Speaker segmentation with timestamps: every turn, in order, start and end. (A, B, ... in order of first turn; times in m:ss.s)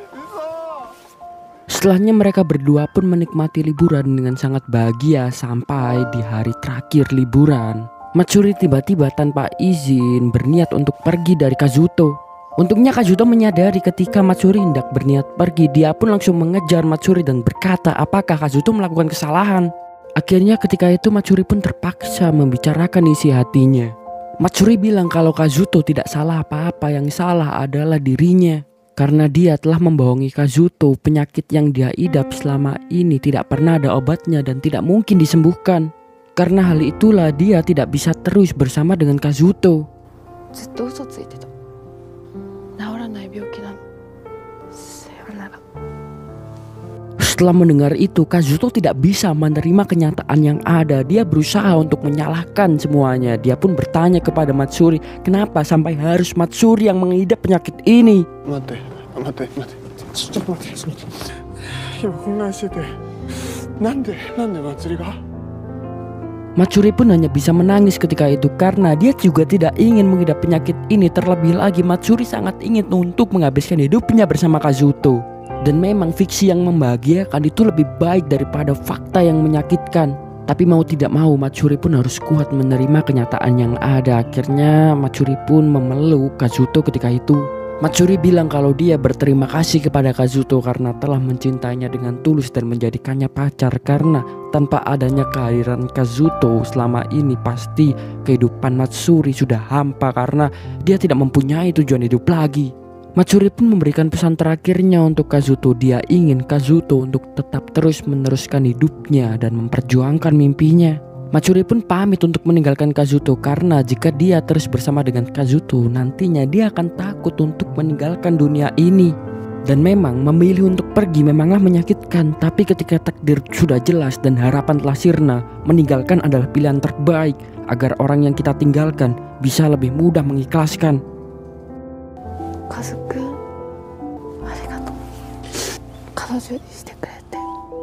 0:01.7-0:39.8 A
0:40.5-0:41.5 B
0:42.8-0:43.8 B
0:44.7-0:45.6 B
0:47.2-0:58.3 A
0:58.4-1:05.2 C
1:06.6-1:59.1 A
1:59.6-2:11.0 A
2:12.7-2:13.4 B
2:14.4-2:15.0 B
2:16.1-2:17.4 B